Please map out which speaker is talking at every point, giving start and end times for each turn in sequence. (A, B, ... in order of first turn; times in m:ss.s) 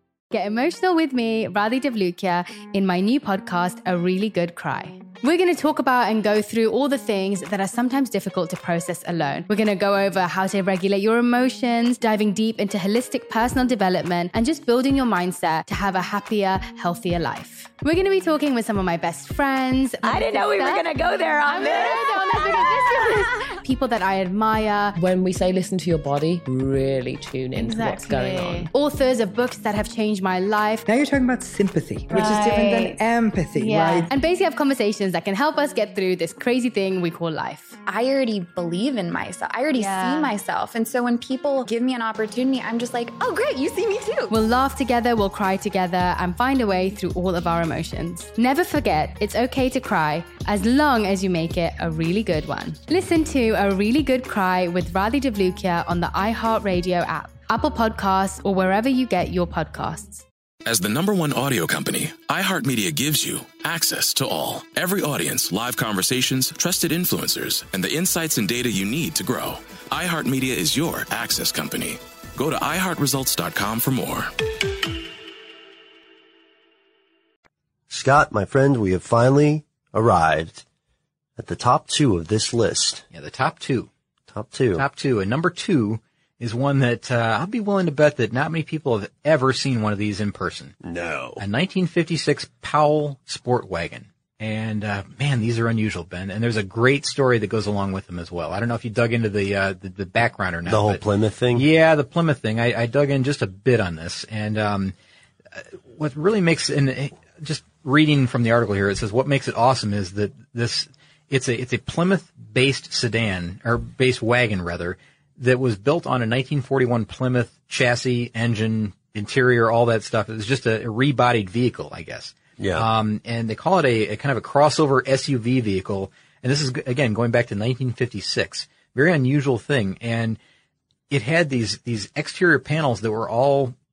0:00.3-0:25.0 A
0:20.1-0:22.1 B
0:25.0-0:28.7 C
0:27.6-0:30.8 A
0:30.9-0:34.1 D
0:32.2-0:32.7 B
0:33.6-0:37.8 A
0:37.8-0:44.3 B
0:39.8-0:40.3 A
0:44.3-1:00.2 A
1:00.7-1:14.3 E
1:17.9-1:20.6 F
1:21.4-1:23.0 F
1:23.1-1:23.9 G
1:24.3-1:24.8 F
1:24.8-1:30.8 G
1:30.8-1:31.4 F
1:31.4-1:41.0 G
1:40.7-1:41.7 F
1:41.5-1:44.9 G
1:45.6-2:10.4 G
2:02.6-2:02.9 F
2:11.1-2:13.7 G